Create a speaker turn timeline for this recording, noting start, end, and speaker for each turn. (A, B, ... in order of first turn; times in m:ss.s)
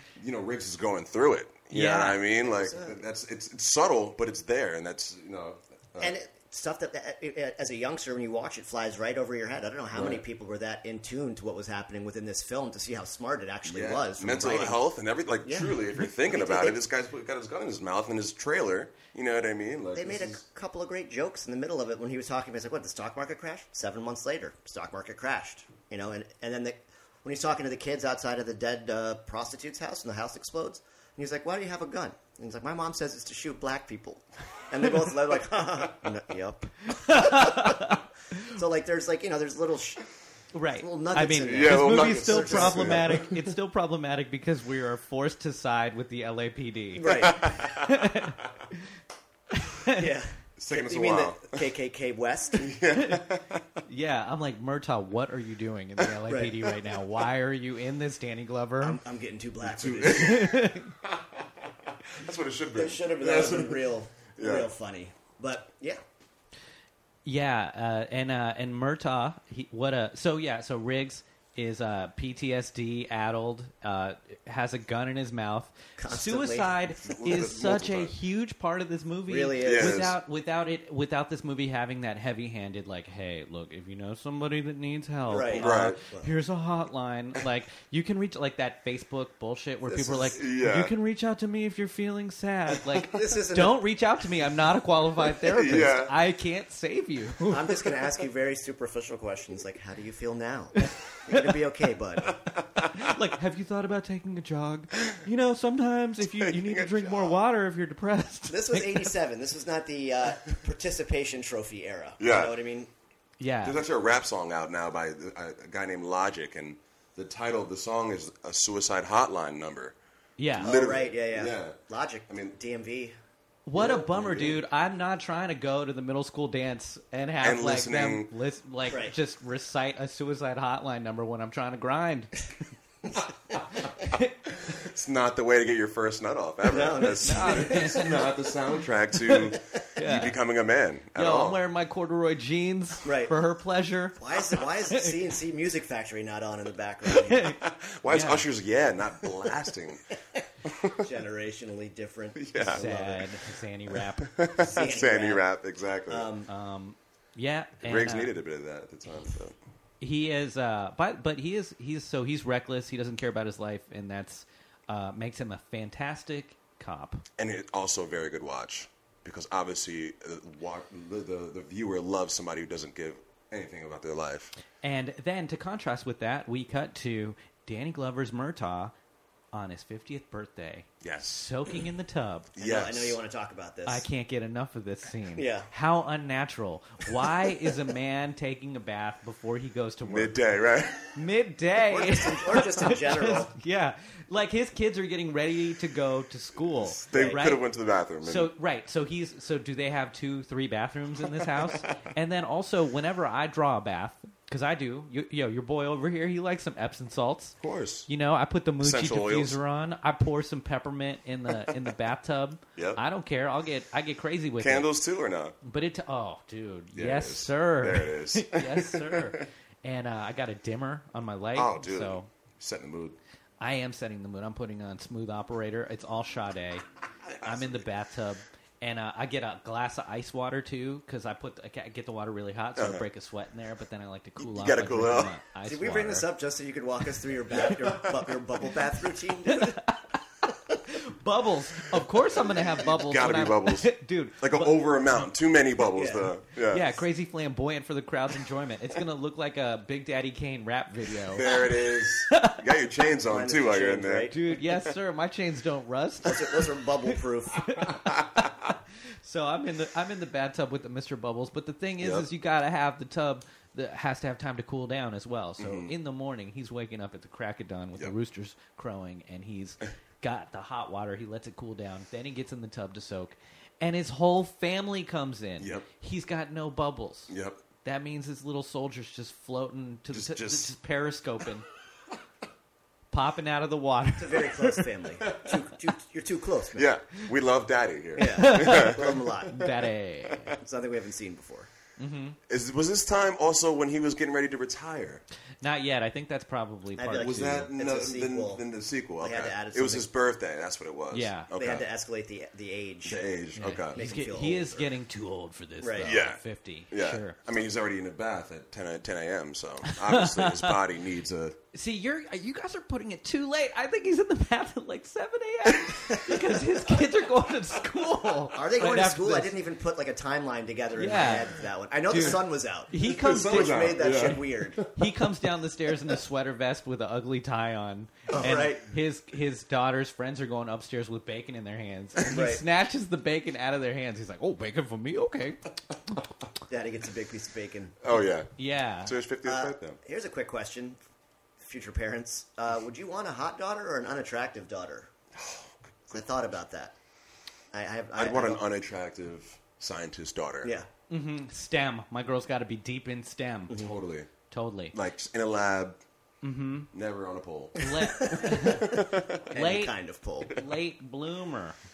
0:00.2-0:06.1 A
0:01.7-0:03.0 B
0:06.0-0:14.8 B
0:09.9-0:10.2 A
0:13.6-0:20.4 A
0:15.4-0:16.8 B
0:19.9-0:40.0 B
0:36.9-0:38.5 C
0:40.5-0:48.4 C
0:40.7-0:43.2 B
0:41.4-0:43.5 A
0:47.0-0:47.6 B
0:47.0-0:48.3 A
0:49.6-0:50.0 C
0:49.9-0:52.7 B
0:50.6-0:51.6 A
0:52.6-0:53.6 A
0:52.9-0:53.3 C
0:53.8-0:59.0 C
0:56.3-0:56.6 B
0:58.8-1:00.5 B
0:59.6-1:04.7 A
1:00.1-1:00.9 C
1:02.7-1:06.0 B
1:07.2-1:37.8 C
1:16.0-1:16.9 B
1:17.0-1:18.2 A
1:19.3-1:20.1 B
1:19.6-1:20.2 A
1:25.3-1:26.3 B
1:25.5-1:26.0 A
1:29.8-1:30.4 B
1:30.3-1:30.9 A
1:33.1-1:33.9 B
1:35.3-1:36.1 A
1:37.5-1:42.4 B
1:42.3-1:43.1 A
1:42.9-1:49.1 C
1:46.2-1:47.4 A
1:48.5-1:52.9 B
1:52.2-1:52.6 A
1:53.4-1:53.8 C
1:53.6-1:59.9 A
2:00.4-2:00.7 C
2:00.6-2:01.8 A
2:00.6-2:03.2 B
2:02.3-2:02.5 A
2:03.6-2:12.5 C
2:03.8-2:04.6 A
2:07.4-2:08.3 A
2:08.8-2:09.2 B
2:14.0-2:14.3 C
2:14.5-2:21.6 A
2:16.6-2:18.0 B
2:17.2-2:18.3 C
2:19.2-2:20.3 C
2:21.1-2:24.2 C
2:23.0-2:23.3 B
2:24.2-2:27.6 B
2:24.8-2:25.1 C
2:27.1-2:28.4 C
2:27.6-2:30.1 A
2:30.6-2:31.0 A
2:30.9-2:33.2 B
2:32.4-2:33.1 A
2:32.6-2:34.4 C
2:34.2-2:36.3 A
2:34.6-2:35.4 B
2:36.1-2:36.5 B
2:36.5-2:38.3 C
2:37.8-2:39.6 A
2:40.0-2:47.2 C
2:47.4-2:54.5 A
2:54.8-2:58.9 C
2:59.5-3:02.5 C
3:01.0-3:01.4 A
3:02.6-3:03.2 A
3:02.6-3:04.0 B
3:03.8-3:10.3 C
3:05.3-3:05.7 B
3:10.0-3:11.1 A
3:11.1-3:17.6 C
3:11.9-3:13.5 B
3:16.9-3:18.5 A
3:17.1-3:17.4 B
3:18.2-3:34.9 C
3:21.6-3:22.0 A
3:27.6-3:28.1 A
3:28.8-3:29.6 A
3:32.8-3:33.0 A
3:34.6-3:35.6 A
3:35.6-3:42.3 C
3:37.0-3:39.4 A
3:41.5-3:43.2 A
3:43.6-3:46.8 C
3:47.2-3:47.8 A
3:47.4-3:56.3 C
3:52.8-3:53.0 A
3:54.4-3:55.3 A
3:55.6-3:59.8 B
3:59.4-4:00.1 C
4:00.8-4:04.8 C
4:02.3-4:06.9 A
4:05.9-4:06.3 B
4:06.7-4:12.6 C
4:11.3-4:14.9 A
4:13.2-4:14.4 B
4:14.3-4:41.6 C
4:16.2-4:17.7 B
4:22.0-4:22.3 A
4:25.6-4:25.9 A
4:35.6-4:35.8 A
4:37.3-4:37.6 A
4:40.1-4:40.7 A
4:43.1-4:44.9 C
4:44.2-4:46.9 B
4:45.2-4:45.6 A
4:46.7-4:49.7 A
4:48.2-4:49.6 B
4:48.3-4:50.6 C
4:50.6-4:51.7 B
4:52.0-4:52.4 C
4:52.5-4:55.2 A
4:55.6-4:57.7 C
4:57.0-4:58.6 B
4:57.2-5:01.8 A
4:59.2-5:00.1 B
5:01.1-5:01.5 C
5:01.6-5:03.2 B
5:03.0-5:04.0 A
5:03.6-5:07.4 C
5:03.9-5:04.9 B
5:05.8-5:06.2 B
5:06.0-5:11.6 A
5:09.8-5:10.8 C
5:11.7-5:19.5 C
5:18.5-5:24.8 B
5:21.0-5:23.9 C
5:23.0-5:25.2 A
5:24.9-5:36.1 C
5:28.3-5:28.9 B
5:32.2-5:32.6 B
5:36.7-5:38.0 B
5:38.0-5:38.5 A
5:38.6-5:39.1 C
5:39.0-5:40.0 A
5:39.4-5:41.0 B
5:41.6-5:45.1 B
5:45.4-5:46.2 A
5:46.1-5:46.9 B
5:47.7-5:48.6 B
5:48.2-5:50.7 A
5:50.6-5:50.9 B
5:51.1-5:53.8 C
5:53.7-5:54.3 A
5:54.5-5:54.9 C
5:54.9-5:56.0 A
5:56.4-5:56.9 C
5:56.9-5:59.4 A
5:57.8-6:01.7 C
5:57.8-6:00.6 B